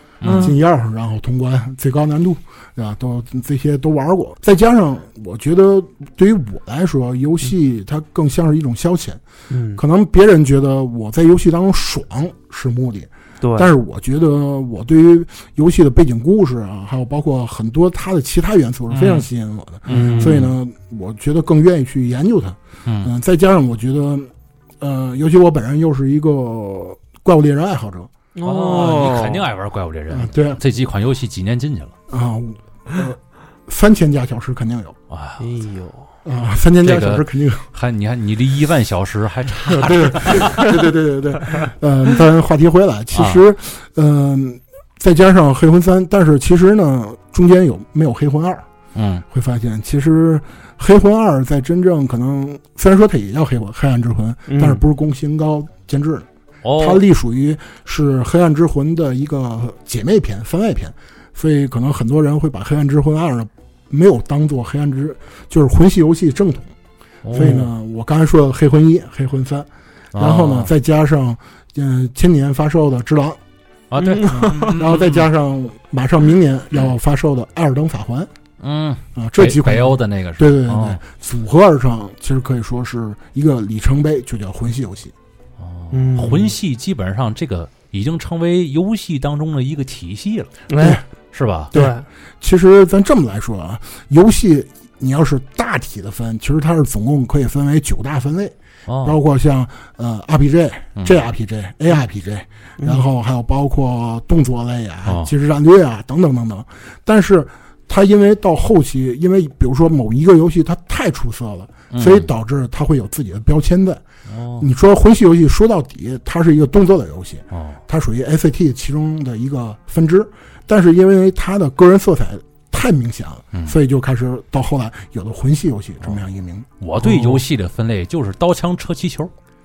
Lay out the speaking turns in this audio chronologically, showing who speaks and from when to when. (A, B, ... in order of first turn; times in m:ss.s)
0:00.2-0:00.5 A
0:00.2-0:00.6 B
0:00.3-0:09.2 C
0:09.5-0:09.8 B
0:09.8-0:28.1 C
0:13.4-0:13.7 B
0:18.9-0:19.3 A
0:19.9-0:20.5 A
0:19.9-0:20.4 B
0:22.8-0:23.1 A
0:28.4-0:29.4 B
0:28.4-0:31.9 A
0:30.1-0:30.6 C
0:32.1-0:35.0 C
0:35.1-0:35.4 A
0:35.4-0:36.1 B
0:36.2-0:37.7 C
0:36.8-0:40.7 A
0:39.7-0:48.7 C
0:43.1-0:43.4 A
0:49.0-0:49.2 A
0:49.3-0:56.3 C
0:54.5-0:54.8 B
0:56.6-0:57.0 A
0:56.8-1:06.7 C
1:07.2-1:07.7 A
1:07.3-1:13.4 C
1:10.1-1:10.7 A
1:13.9-1:15.2 A
1:14.0-1:14.8 B
1:14.3-1:18.3 C
1:18.6-1:21.0 A
1:19.2-1:25.1 C
1:25.6-1:30.5 A
1:25.9-1:26.5 B
1:30.7-1:31.0 B
1:30.8-1:31.0 C
1:31.3-1:31.7 A
1:31.7-1:32.0 B
1:31.7-1:54.0 C
1:38.9-1:39.2 A
1:42.8-1:43.0 B
1:45.1-1:45.3 A
1:51.9-1:52.3 A
1:54.3-1:54.7 A
1:54.6-2:06.7 C
1:57.5-1:57.8 A
2:06.8-2:09.3 A
2:07.1-2:07.4 B